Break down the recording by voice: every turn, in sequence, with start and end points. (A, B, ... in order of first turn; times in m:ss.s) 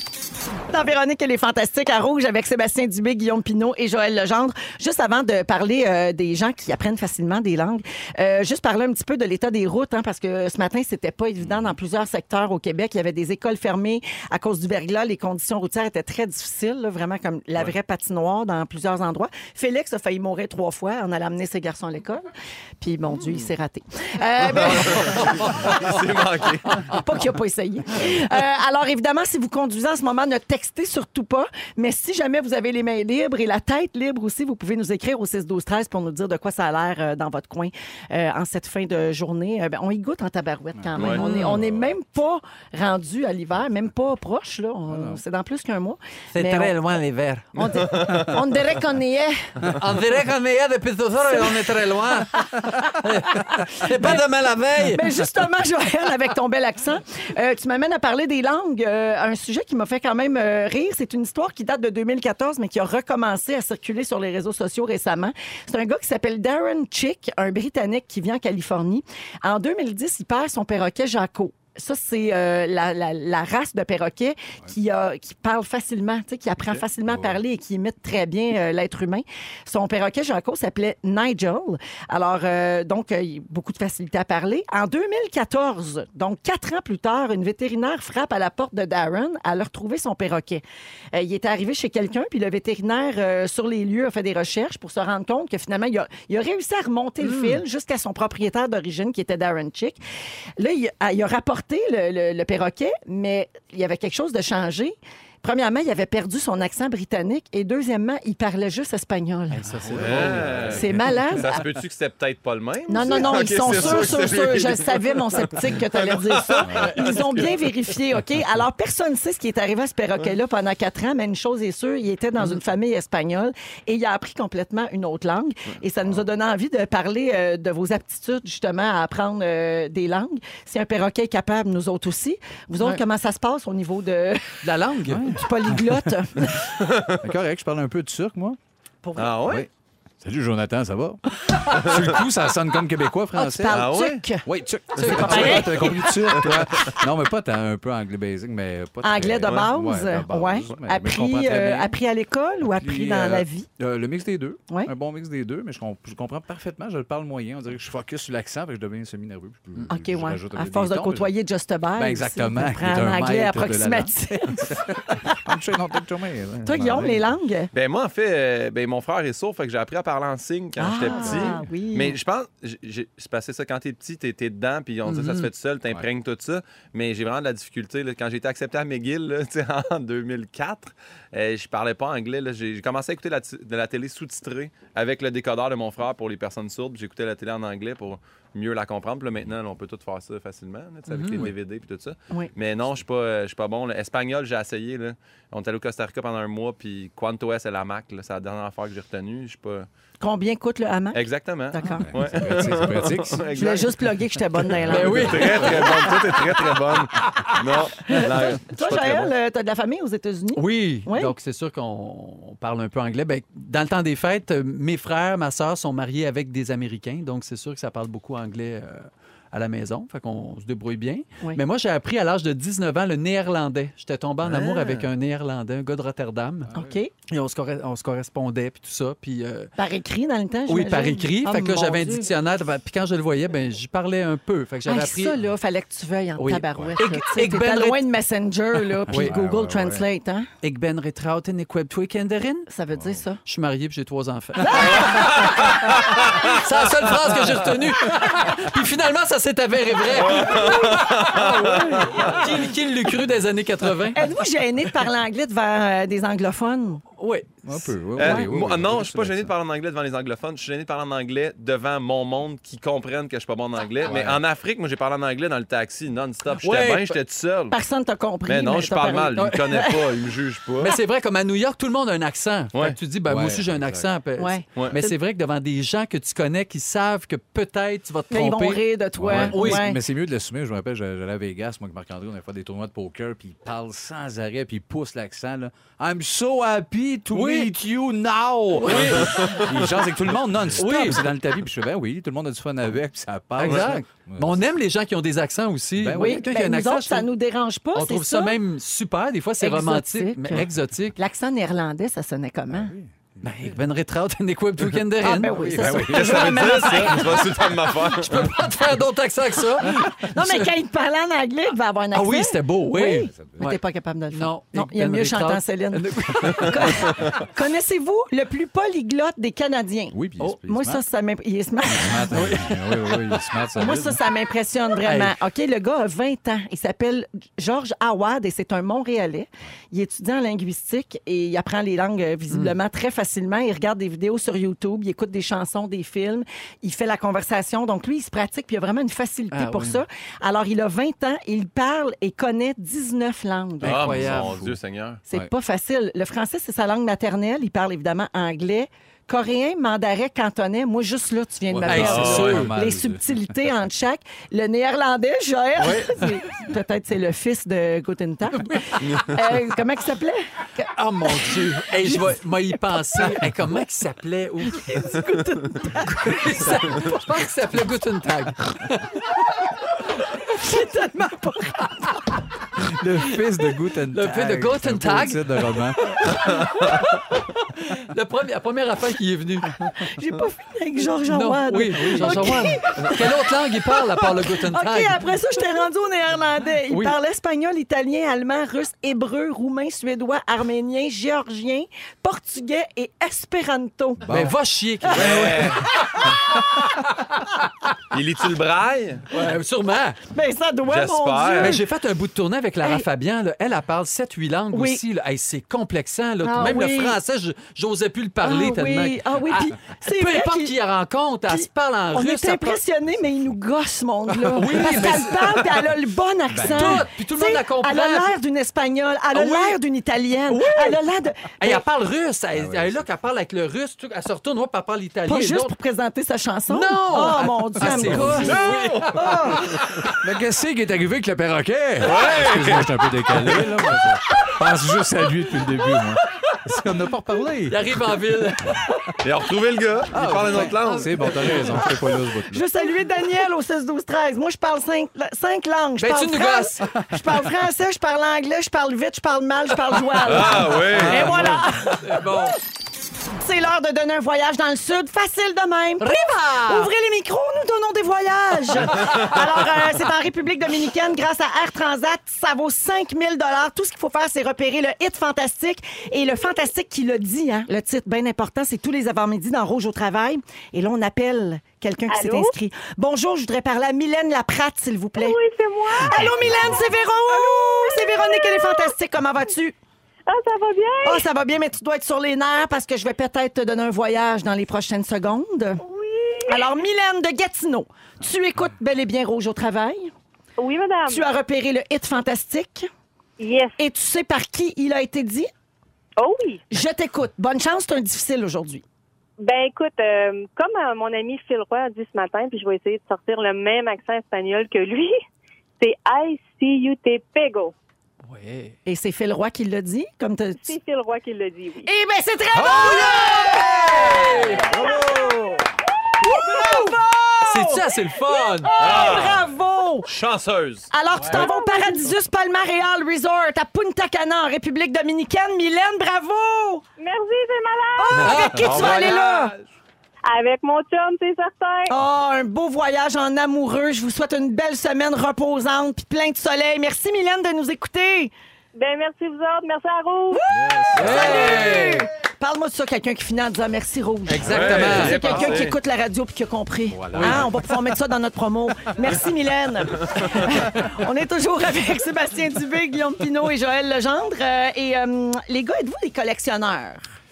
0:00.7-0:22.3 A
0:11.4-0:11.7 B
0:22.8-0:25.5 A
0:24.5-0:27.0 C
0:26.7-0:46.7 A
0:40.7-0:41.9 B
0:41.0-0:41.2 C
0:41.1-0:41.6 D
0:44.9-0:45.2 B
0:46.3-0:47.5 D
0:47.5-0:49.4 A
0:47.6-0:48.4 C
0:49.8-0:55.0 D
0:51.3-0:51.5 A
0:53.6-0:54.2 A
0:54.9-1:30.6 A
1:17.0-1:17.4 B
1:31.1-1:40.0 A
1:37.2-1:37.6 D
1:40.6-1:49.6 A
1:49.5-1:50.8 D
1:49.7-1:51.2 B
1:50.0-1:57.9 C
1:50.7-1:51.5 A
1:52.9-2:14.6 A
1:53.6-1:54.1 B
1:56.6-1:56.9 B
2:14.6-2:15.3 D
2:15.1-2:16.1 B
2:15.3-2:16.7 A
2:16.8-2:17.2 C
2:17.2-2:18.6 B
2:19.0-2:19.4 A
2:19.2-2:19.7 C
2:19.4-2:19.7 B
2:20.2-2:31.9 B
2:21.7-2:22.1 C
2:23.3-2:24.4 A
2:23.7-2:24.2 C
2:25.0-2:25.8 D
2:25.0-2:25.2 C
2:25.0-2:26.4 A
2:26.3-2:26.6 C
2:29.0-2:33.7 A
2:29.4-2:29.7 C
2:32.6-2:41.3 B
2:39.9-2:45.4 A
2:42.0-2:47.3 B
2:46.6-2:47.7 A
2:47.7-3:19.9 C
2:50.8-2:52.2 A
2:51.1-2:51.7 B
2:55.0-2:55.5 D
3:11.1-3:11.5 D
3:20.2-3:22.1 A
3:21.1-3:23.9 C
3:21.9-3:23.5 B
3:23.5-3:25.3 A
3:24.6-3:26.1 B
3:24.8-3:26.1 D
3:25.0-3:29.3 C
3:28.0-3:31.3 A
3:30.5-3:46.7 D
3:44.4-3:45.1 C
3:46.6-3:47.0 B
3:46.7-3:47.1 A
3:47.3-3:49.7 D
3:49.8-3:52.3 A
3:50.7-3:55.3 D
3:54.8-4:00.5 A
3:56.4-3:58.0 D
3:59.1-4:00.0 B
4:00.6-4:02.7 D
4:02.7-4:03.4 A
4:02.9-4:03.2 B
4:03.4-4:14.3 D
4:04.6-4:05.3 A
4:04.8-4:06.6 C
4:10.1-4:12.6 C
4:14.1-4:17.0 A
4:17.2-4:17.8 D
4:17.6-4:19.5 B
4:18.2-4:27.8 C
4:18.2-4:18.5 A
4:24.0-4:24.4 B
4:26.6-4:27.2 D
4:27.7-4:30.2 A
4:28.4-4:30.9 C
4:29.4-4:29.8 D
4:30.8-4:39.8 D
4:33.2-4:34.1 B
4:34.4-4:35.2 A
4:38.3-4:40.0 A
4:39.2-4:54.7 B
4:47.3-4:47.7 D
4:48.7-4:49.7 D
4:49.0-4:49.7 C
4:50.7-4:51.2 D
4:53.6-4:57.3 D
4:53.6-4:53.9 C
4:56.0-4:56.4 B
4:56.1-4:58.6 A
4:57.9-5:01.2 D
4:59.6-5:02.9 A
5:02.7-5:03.7 B
5:03.4-5:05.5 D
5:05.2-5:07.5 A
5:05.4-5:06.7 B
5:05.8-5:08.5 C
5:07.0-5:07.4 D
5:08.0-5:10.7 D
5:09.9-5:22.4 A
5:12.1-5:13.8 D
5:13.2-5:13.6 B
5:14.3-5:17.3 D
5:20.1-5:21.0 B
5:21.8-5:24.2 B
5:22.3-5:23.2 D
5:23.8-5:44.0 A
5:25.0-5:25.4 D
5:32.5-5:32.8 D
5:39.5-5:40.0 D
5:43.8-5:44.6 D
5:43.8-5:45.2 C
5:44.0-5:44.8 B
5:45.3-6:02.3 A
5:51.7-5:53.7 B
5:51.9-5:52.7 D
5:52.0-5:52.6 C
5:55.8-5:56.3 D
5:58.6-5:59.2 D
6:01.0-6:05.1 D
6:04.7-6:07.2 A
6:06.1-6:09.2 D
6:10.4-6:12.2 A
6:12.8-6:16.1 B
6:14.1-6:20.0 D
6:19.9-6:23.3 A
6:21.3-6:25.2 D
6:23.9-6:34.2 A
6:26.9-6:27.2 D
6:34.2-6:34.6 B
6:34.3-6:35.9 D
6:35.1-6:35.9 C
6:35.1-6:36.6 A
6:38.1-6:39.2 C
6:39.3-6:40.2 D
6:40.3-6:41.8 A
6:40.8-6:41.8 C
6:41.6-6:52.8 D
6:44.7-6:45.0 A
6:46.4-6:47.2 A
6:48.4-6:50.7 A
6:51.5-7:01.8 A
6:54.5-6:55.7 D
6:56.5-6:57.1 B
6:56.6-6:58.3 D
6:59.3-6:59.8 D
7:00.5-7:01.0 D
7:01.6-7:05.7 D
7:02.5-7:03.1 B
7:05.2-7:08.6 A
7:06.7-7:10.1 D
7:07.8-7:08.6 B
7:08.5-7:10.0 C
7:09.1-7:09.6 A
7:10.1-7:17.9 B
7:12.0-7:13.6 C
7:17.7-7:18.9 D
7:19.2-7:22.0 C
7:20.1-7:22.6 B
7:20.8-7:21.5 D
7:22.5-7:32.4 A
7:26.0-7:26.9 D
7:30.2-7:31.3 C
7:30.7-7:31.6 B
7:30.9-7:32.6 D
7:33.3-7:55.4 A
7:36.0-7:36.9 D
7:39.0-7:39.4 C
7:52.1-7:52.5 E
7:55.2-7:58.9 E
7:55.9-7:59.8 A
8:00.3-8:01.2 E
8:01.0-8:05.8 A
8:05.8-8:06.7 E
8:06.5-8:10.1 A
8:10.6-8:11.2 E
8:11.1-8:12.9 A
8:13.4-8:13.8 E
8:13.8-8:15.5 A
8:16.2-8:16.6 E
8:16.7-8:18.8 A
8:19.4-8:25.2 E
8:25.8-8:27.7 E
8:28.2-8:28.8 D
8:28.8-8:30.7 A
8:30.6-8:31.9 E
8:31.8-8:35.6 A
8:32.5-8:34.7 D
8:34.4-8:35.5 E
8:34.8-8:35.3 B
8:36.2-8:40.1 A
8:36.2-8:37.0 E
8:37.4-8:39.0 D
8:38.8-8:39.5 C
8:38.8-8:39.2 E
8:40.0-8:40.9 C
8:40.9-8:46.8 A
8:41.1-8:41.4 D
8:41.3-8:42.1 E
8:47.0-8:48.7 E
8:48.0-8:49.5 A
8:48.2-8:49.0 D
8:48.5-8:49.7 C
8:50.2-8:51.9 E
8:51.9-8:58.3 A
8:58.7-9:00.4 E
9:00.3-9:17.0 A
9:00.5-9:01.8 B
9:00.9-9:02.1 D
9:01.1-9:01.6 C
9:04.3-9:05.4 D
9:04.4-9:05.7 B
9:04.4-9:05.8 C
9:06.9-9:07.8 B
9:07.1-9:07.5 D